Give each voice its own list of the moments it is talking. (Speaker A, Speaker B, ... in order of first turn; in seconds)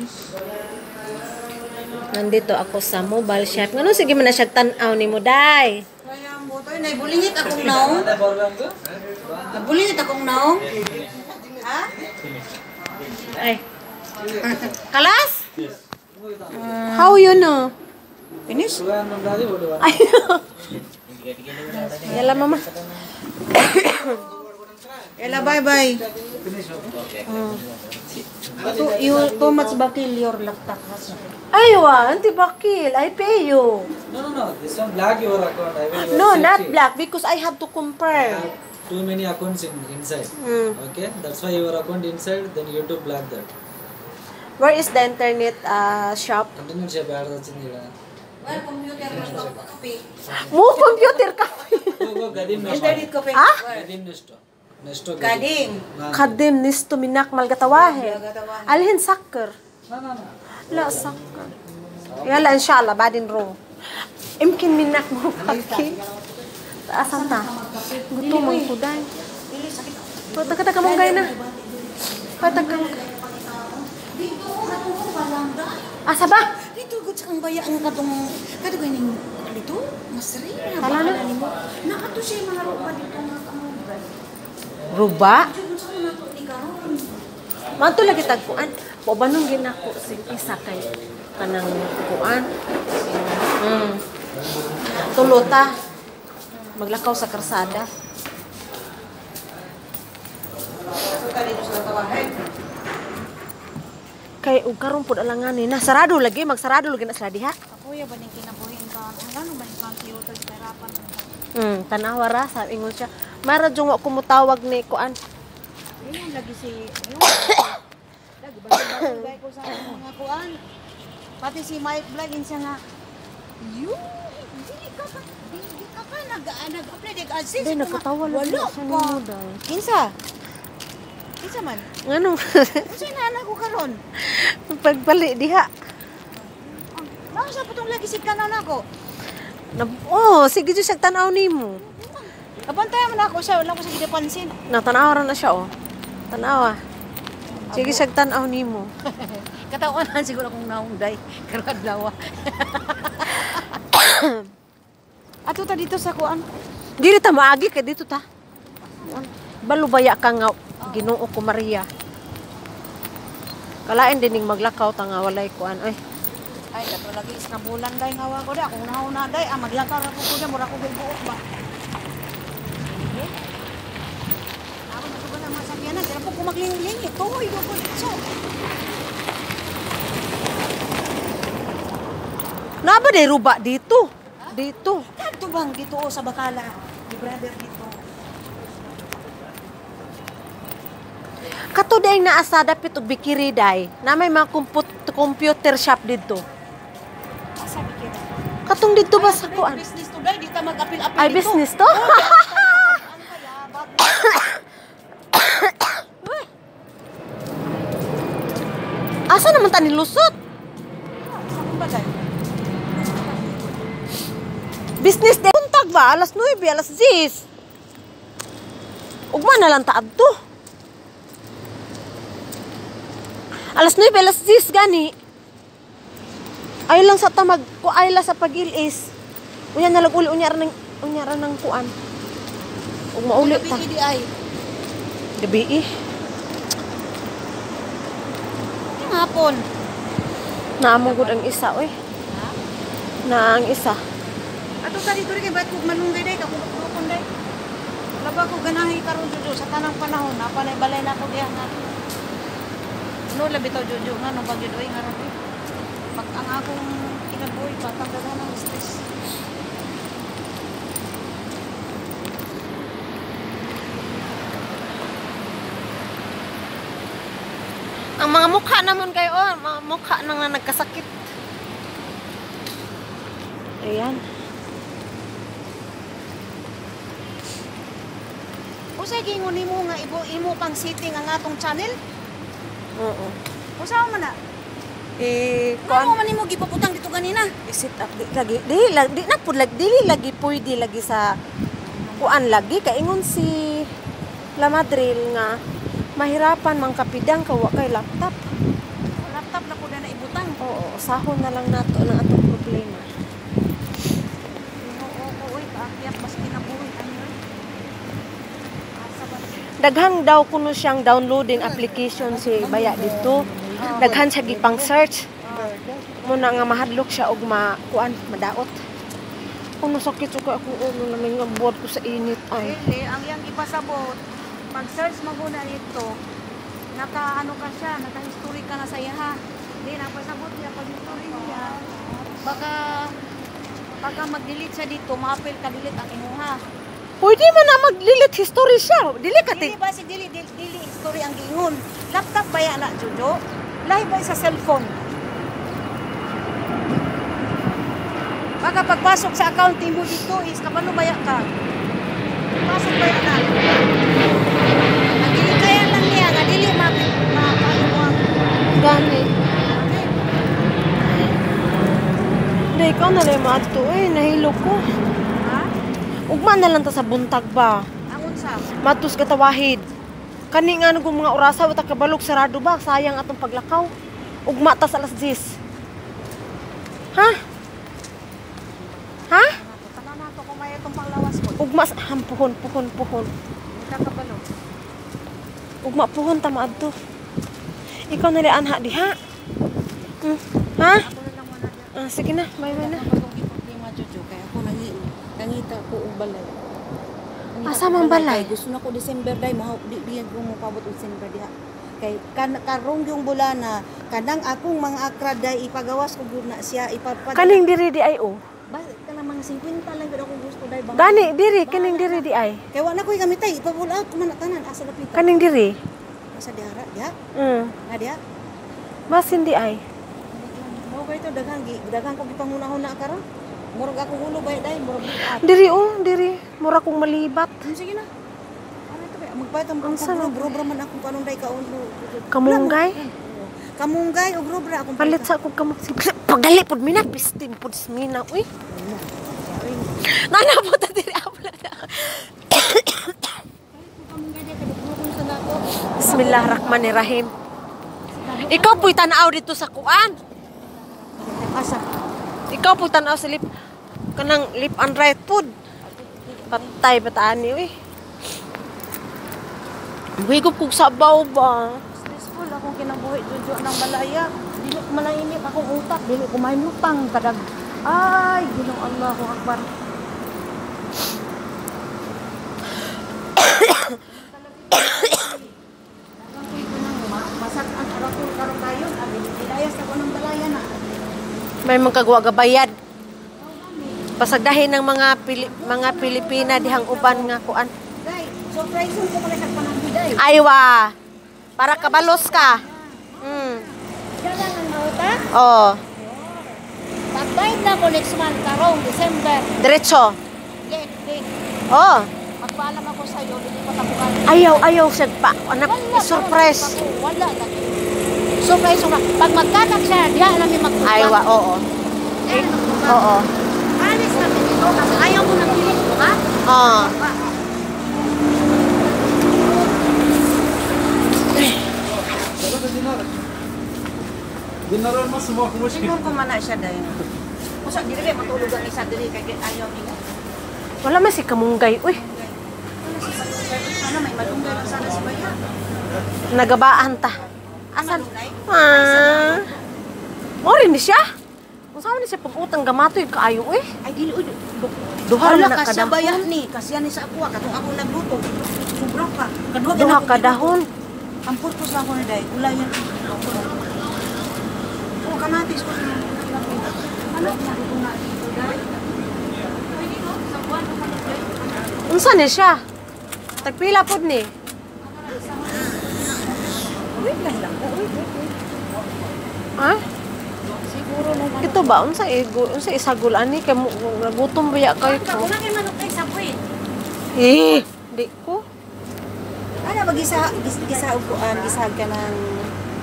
Speaker A: 2.1-5.8, 13.3-13.6, 14.8-15.4, 16.9-17.7, 19.8-20.6, 22.0-24.2, 27.1-27.6, 31.5-33.9, 35.9-38.5, 40.4-40.8, 44.6-46.5, 50.4-52.2, 53.3-53.6, 56.1-59.5, 60.7-61.5, 62.2-63.6, 64.4-66.0, 66.9-67.5, 68.1-69.1, 70.3-71.3, 72.4-73.0, 76.0-76.5, 80.8-81.2, 84.9-85.5, 87.8-92.5, 93.6-94.0, 94.9-95.7, 96.8-97.9, 104.4-107.5, 111.6-115.2, 127.6-129.6, 132.1-132.9, 134.2-135.7, 139.7-141.8, 144.7-145.7, 146.3-146.8, 147.7-148.9, 153.9-154.5, 157.0-158.2, 159.1-161.9, 163.9-166.0, 182.8-185.1, 191.7-196.4, 198.7-199.8, 201.2-202.9, 204.1-204.6, 205.3-206.5, 209.3-210.3, 215.0-217.4, 219.3-220.3, 223.7-225.1, 226.9-229.0, 229.8-231.9, 233.2-233.8, 235.4-235.9, 240.8-241.9, 243.3-244.0, 268.2-271.1, 273.8-274.2, 283.0-283.4, 285.2-286.2, 287.6-291.3, 292.2-293.8, 294.6-295.5, 296.2-298.3, 300.6-303.1, 309.8-315.2, 316.2-318.7, 319.8-322.8, 337.2-339.7, 358.8-359.3, 362.7-364.8, 366.3-367.8, 368.8-369.9, 370.5-373.9, 374.5-375.4, 381.6-383.3, 385.8-386.9, 388.1-389.1, 390.2-391.0, 391.9-393.0, 397.6-398.5, 407.3-408.4, 410.9-412.6, 415.1-415.8, 417.4-417.7, 419.1-419.8, 425.2-427.6, 429.8-430.6, 432.3-433.0, 435.0-438.5, 440.0-443.4, 446.0-447.3, 448.5-450.1, 452.5-453.4, 454.2-455.5, 456.5-457.7, 460.2-461.8, 473.4-473.9, 481.6-482.7, 484.2-487.7, 490.2-490.9, 491.6-492.6, 493.2-493.6, 495.3-495.8, 499.6-500.2, 501.7-502.1, 504.3-506.8, 510.8-511.6, 512.3-513.3, 516.5-517.0, 530.8-532.0, 536.3-537.1, 537.8-539.4, 540.4-541.0, 541.7-543.6, 545.1-546.3, 549.7-550.7, 561.9-562.6, 563.4-564.3, 571.4-575.3, 577.1-578.4
Speaker B: 6.0-8.1, 9.5-10.7, 11.6-11.9, 14.4-14.7, 16.5-17.2, 18.5-18.8, 25.2-26.0, 28.6-31.3, 48.4-50.1, 52.6-53.9, 55.2-55.9, 57.7-58.9, 65.3-66.4, 67.0-68.7, 69.5-76.0, 76.5-84.1, 85.1-87.2, 94.8-95.2, 100.9-102.4, 107.7-111.3, 116.0-117.8, 118.4-120.5, 121.4-122.8, 123.6-130.1, 131.4-131.9, 132.8-134.0, 136.3-138.8, 141.7-144.5, 147.6-148.0, 149.1-153.7, 155.4-156.4, 158.8-159.2, 160.8-161.1, 166.7-171.4, 172.8-173.3, 174.9-178.2, 185.1-187.9, 197.6-198.3, 199.1-204.2, 211.2-212.3, 213.0-213.7, 233.3-234.3, 238.9-239.6, 241.0-241.7, 242.2-242.6, 244.8-247.2, 248.2-251.8, 253.3-255.3, 256.1-259.0, 279.0-281.9, 283.8-284.3, 285.8-287.6, 291.8-292.6, 299.1-300.6, 304.8-307.3, 309.0-309.7, 313.7-314.3, 315.4-315.8, 322.5-324.2, 324.7-326.1, 326.9-333.1, 334.0-336.6, 339.5-345.0, 348.6-351.5, 352.6-353.6, 355.2-358.2, 359.6-360.1, 365.4-365.7, 368.1-368.7, 379.1-381.7, 383.7-384.5, 386.6-386.9, 390.8-392.0, 392.6-396.6, 397.5-407.6, 408.7-415.3, 416.3-417.1, 417.8-418.2, 420.3-425.5, 427.6-428.1, 428.9-435.3, 438.7-440.2, 443.7-446.9, 448.1-449.0, 451.0-451.8, 455.8-456.8, 461.9-469.7, 474.0-475.5, 476.2-480.7, 483.4-484.1, 485.4-487.3, 488.0-490.2, 491.6-495.2, 495.9-499.5, 500.6-501.3, 502.4-504.7, 505.6-507.8, 508.4-511.2, 512.2-513.0, 513.8-517.1, 519.2-520.0, 525.6-527.0, 527.6-530.0, 531.8-535.4, 537.7-539.6, 543.8-550.6, 551.2-553.8, 555.0-562.1, 564.8-568.3, 570.5-571.8, 574.8-576.5, 579.6-582.5
Speaker C: 7.6-8.8, 14.3-14.6, 15.6-16.6, 18.6-19.9, 24.5-24.8, 26.2-27.1, 28.1-29.7, 34.1-36.8, 38.1-43.5, 46.5-47.9, 49.0-49.6, 52.0-53.2, 53.7-56.4, 60.0-61.2, 62.1-62.6, 315.8-316.1, 522.3-523.2, 524.7-525.8